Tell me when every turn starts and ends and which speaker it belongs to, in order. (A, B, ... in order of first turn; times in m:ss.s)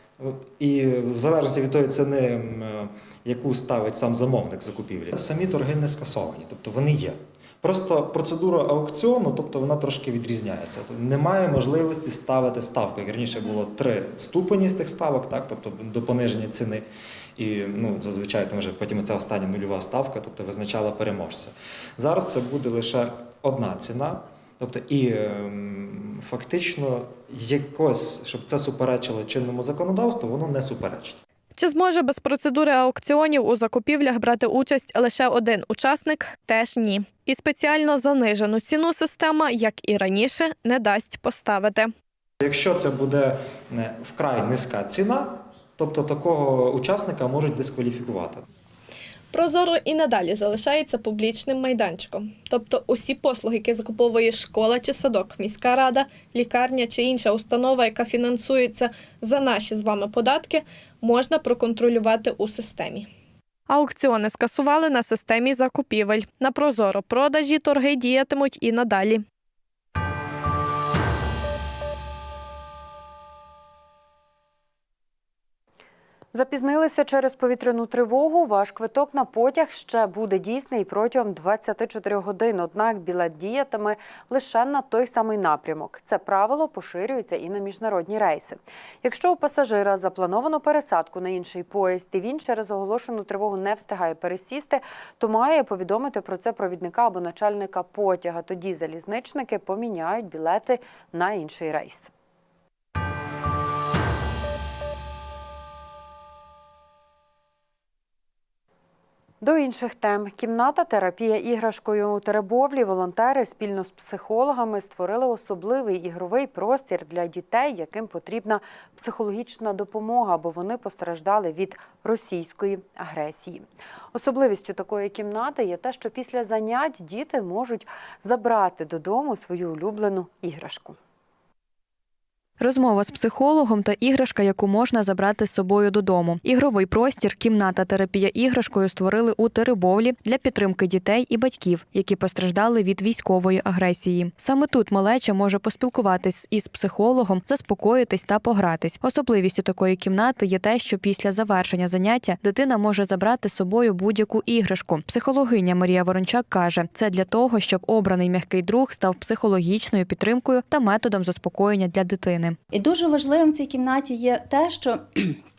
0:00.2-0:16.8 A
0:17.4-0:31.2 A
0:31.5-0:41.9 B
0:42.4-0:48.4 A
0:49.3-1:03.1 B
1:03.7-1:09.2 B
1:16.3-1:42.1 C
1:49.4-2:11.0 C
2:12.6-2:42.6 D
2:42.7-2:45.4 E